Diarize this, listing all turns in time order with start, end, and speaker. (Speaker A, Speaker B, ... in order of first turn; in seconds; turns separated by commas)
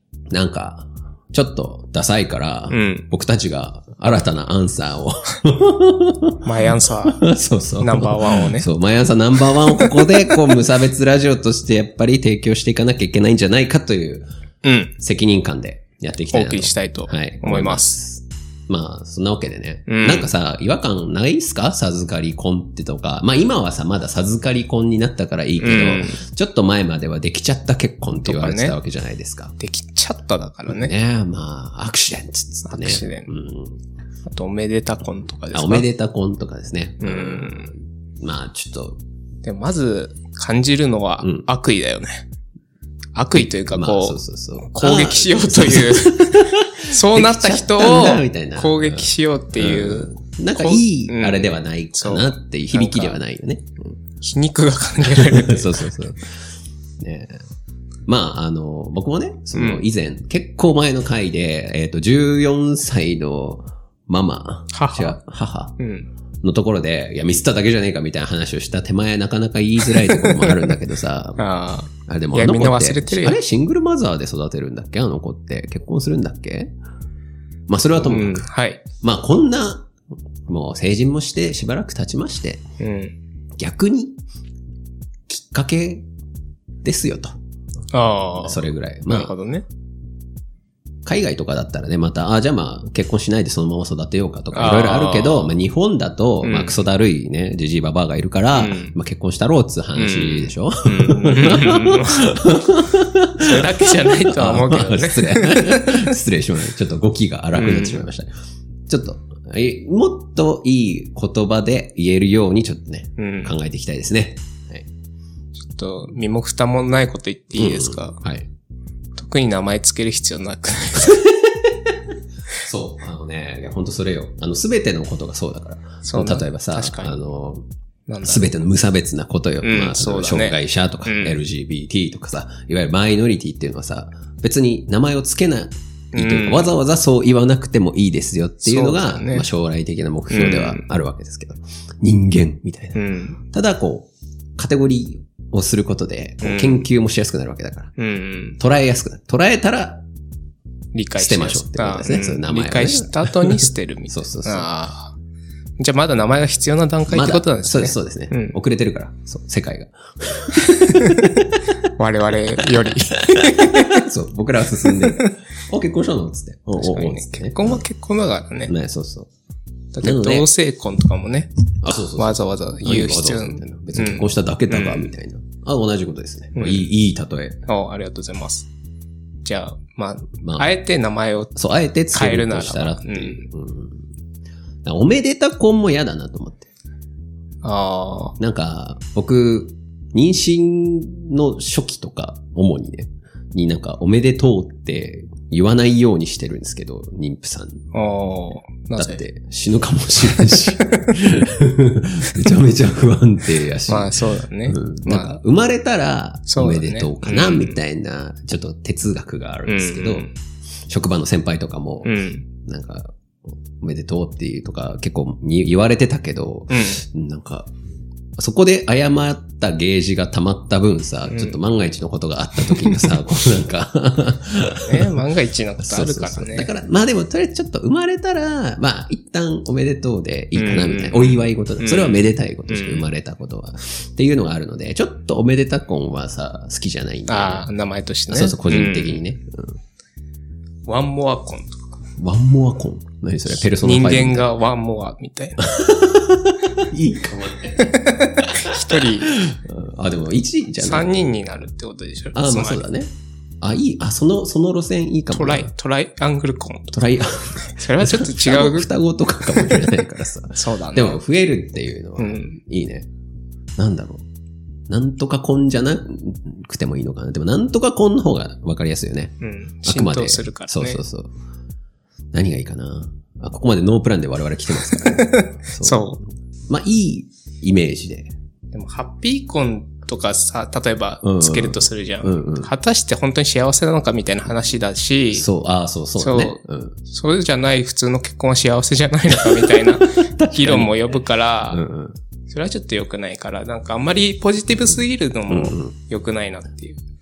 Speaker A: 0.3-14.3, Speaker B: 2.7-3.1, Speaker B: 6.4-7.3, Speaker B: 7.8-8.7, Speaker B: 9.6-10.4, Speaker B: 14.6-14.9, Speaker A: 15.0-29.6, Speaker B: 16.3-18.0, Speaker B: 19.9-20.3, Speaker B: 25.6-26.2, Speaker B: 28.2-28.8, Speaker B: 29.6-30.9, Speaker A: 30.7-33.8, Speaker B: 32.7-33.3, Speaker B: 34.3-35.9, Speaker A: 35.5-39.0, Speaker B: 37.0-37.7, Speaker B: 39.4-42.3, Speaker B: 43.1-53.2, Speaker A: 43.4-54.0, Speaker B: 54.2-55.9, Speaker A: 55.0-56.3, Speaker A: 57.0-57.4, Speaker A: 58.1-65.8, Speaker B: 59.5-59.8, Speaker B: 64.7-65.2, Speaker B: 65.8-66.1, Speaker A: 66.4-71.4, Speaker B: 70.0-70.6, Speaker B: 71.4-73.4, Speaker A: 72.1-76.7, Speaker A: 77.7-78.5, Speaker B: 78.0-78.8, Speaker A: 79.0-79.9, Speaker A: 80.5-82.7, Speaker B: 82.8-83.2, Speaker A: 83.6-84.2, Speaker A: 85.3-86.1, Speaker A: 86.8-87.3, Speaker B: 87.9-89.7, Speaker A: 88.4-89.3, Speaker A: 91.0-108.3, Speaker B: 94.5-95.6, Speaker B: 96.4-96.8, Speaker B: 98.5-99.0, Speaker B: 100.0-102.5, Speaker B: 103.4-106.2, Speaker B: 107.5-108.0, Speaker A: 108.9-114.9, Speaker B: 113.2-113.5, Speaker B: 115.6-118.2, Speaker A: 117.6-118.5, Speaker B: 119.2-121.2, Speaker A: 121.0-122.0, Speaker A: 122.6-127.7, Speaker B: 126.0-127.2, Speaker B: 128.1-128.5, Speaker A: 128.2-147.9, Speaker B: 129.6-131.4, Speaker B: 136.1-136.7, Speaker B: 138.6-139.5, Speaker B: 140.3-140.8, Speaker B: 142.9-143.4, Speaker B: 146.4-146.8, Speaker B: 148.0-148.6, Speaker A: 148.6-150.0, Speaker B: 150.9-155.2, Speaker A: 151.2-154.7, Speaker B: 155.8-158.6, Speaker A: 157.1-161.6, Speaker B: 160.6-164.1, Speaker A: 162.8-167.8, Speaker B: 164.8-165.3, Speaker B: 166.8-168.7, Speaker A: 168.7-169.3, Speaker B: 169.9-171.5, Speaker A: 170.0-170.5, Speaker A: 171.8-177.6, Speaker B: 172.2-175.1, Speaker B: 176.6-176.9, Speaker B: 177.7-178.7, Speaker B: 179.4-181.5, Speaker A: 180.4-180.7, Speaker A: 181.6-184.0, Speaker B: 182.1-183.5, Speaker A: 184.8-186.7, Speaker B: 187.6-188.4, Speaker A: 188.4-197.8, Speaker B: 197.9-199.2, Speaker A: 199.0-210.3, Speaker B: 200.4-201.1, Speaker B: 203.9-205.4, Speaker B: 206.5-207.8, Speaker B: 209.7-210.3, Speaker A: 210.9-213.1, Speaker B: 212.0-212.5, Speaker A: 213.8-217.7, Speaker B: 216.7-217.0, Speaker A: 218.4-225.1, Speaker B: 221.3-221.6, Speaker B: 222.7-223.1, Speaker B: 224.8-226.7, Speaker A: 225.8-237.7, Speaker B: 230.6-233.1, Speaker B: 237.3-239.2, Speaker A: 238.3-239.8, Speaker B: 240.9-242.0, Speaker A: 242.2-244.5, Speaker B: 243.6-245.7, Speaker A: 245.6-251.3, Speaker B: 247.8-249.4, Speaker B: 250.8-252.8, Speaker A: 252.3-255.7, Speaker B: 255.3-258.9, Speaker A: 256.9-263.1, Speaker B: 259.5-260.0, Speaker B: 260.6-261.2, Speaker B: 262.2-262.6, Speaker A: 263.8-264.2, Speaker A: 264.9-271.3, Speaker B: 269.4-271.0, Speaker A: 272.3-276.2, Speaker B: 274.7-276.2, Speaker A: 276.7-278.3, Speaker B: 278.7-285.5, Speaker A: 281.2-282.7, Speaker A: 285.3-287.0, Speaker B: 286.2-291.9, Speaker A: 289.3-292.2, Speaker B: 292.5-297.0, Speaker A: 294.8-295.9